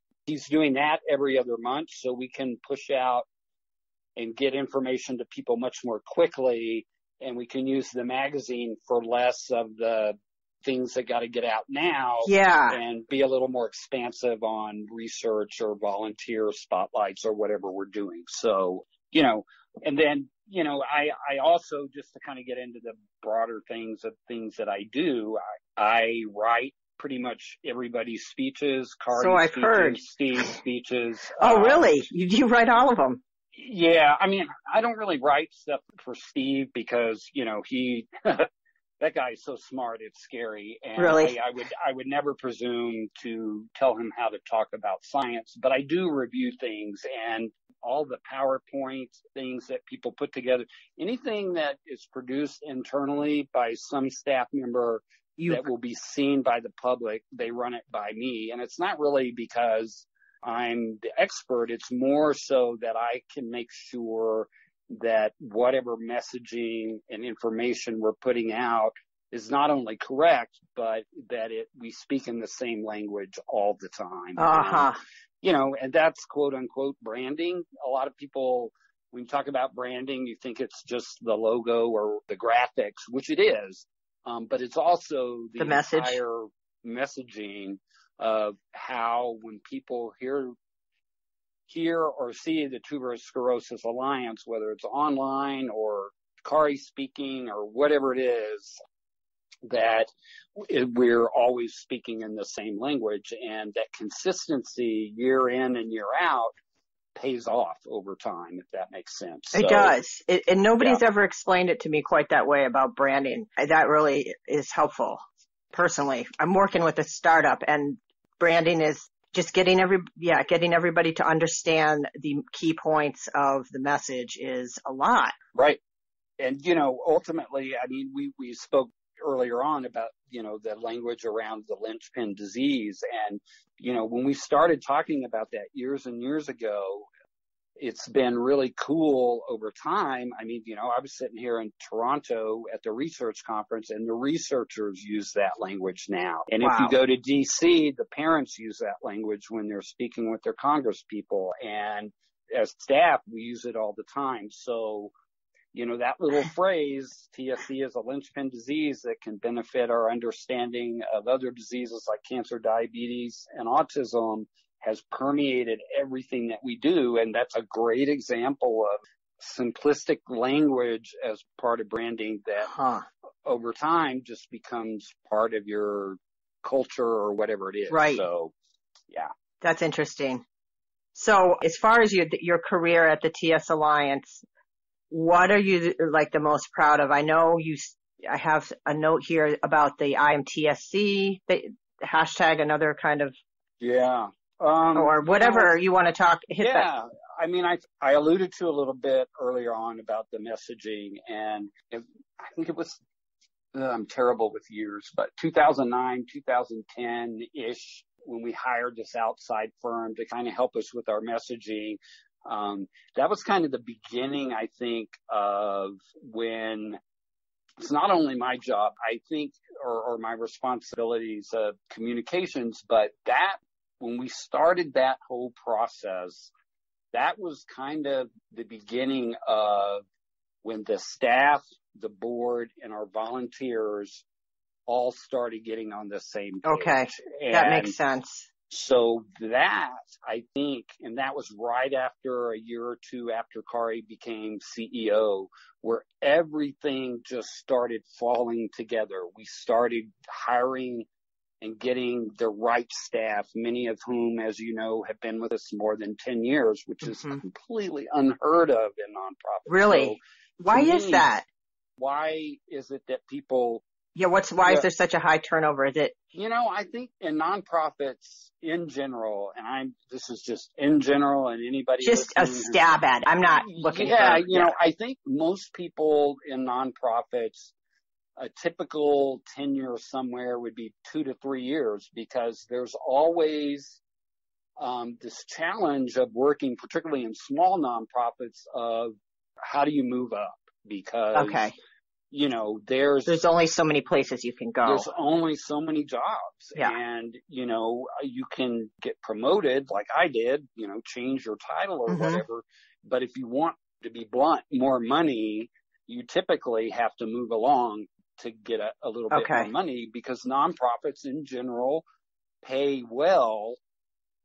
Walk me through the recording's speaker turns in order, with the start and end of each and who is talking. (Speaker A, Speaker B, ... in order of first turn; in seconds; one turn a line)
Speaker A: 0.2-3.2
Speaker A: 4.2-32.0
Speaker B: 12.2-12.8
Speaker B: 29.1-30.4
Speaker B: 31.4-33.2
Speaker A: 33.5-38.5
Speaker A: 39.0-74.9
Speaker B: 41.0-41.4
Speaker B: 55.4-55.6
Speaker B: 74.4-75.0
Speaker A: 75.4-90.5
Speaker B: 85.6-86.2
Speaker A: 91.7-98.8
Speaker A: 99.7-106.5
Speaker A: 107.1-110.0
Speaker B: 109.5-115.2
Speaker B: 115.7-125.3
Speaker A: 126.4-137.1
Speaker A: 137.8-155.1
Speaker B: 146.6-146.9
Speaker A: 155.7-172.7
Speaker B: 172.6-173.0
Speaker A: 173.4-178.5
Speaker B: 177.9-178.2
Speaker B: 179.6-180.4
Speaker B: 181.1-184.4
Speaker B: 185.1-193.3
Speaker A: 193.8-195.7
Speaker B: 194.9-196.9
Speaker A: 196.6-203.0
Speaker A: 203.7-217.0
Speaker A: 217.8-226.5
Speaker A: 227.1-230.0
Speaker A: 230.6-234.2
Speaker A: 234.9-237.9
Speaker B: 236.6-238.5
Speaker A: 238.7-251.1
Speaker A: 251.6-261.3
Speaker B: 257.0-257.4
Speaker B: 259.7-261.4
Speaker A: 262.0-263.8
Speaker B: 264.1-266.1
Speaker A: 266.3-272.8
Speaker B: 272.0-274.7
Speaker A: 273.5-277.7
Speaker A: 278.4-284.0
Speaker A: 284.8-291.7
Speaker B: 291.3-291.8
Speaker A: 292.3-293.4
Speaker B: 293.2-295.1
Speaker A: 294.8-312.0
Speaker B: 302.1-302.4
Speaker B: 309.3-309.7
Speaker A: 312.6-313.8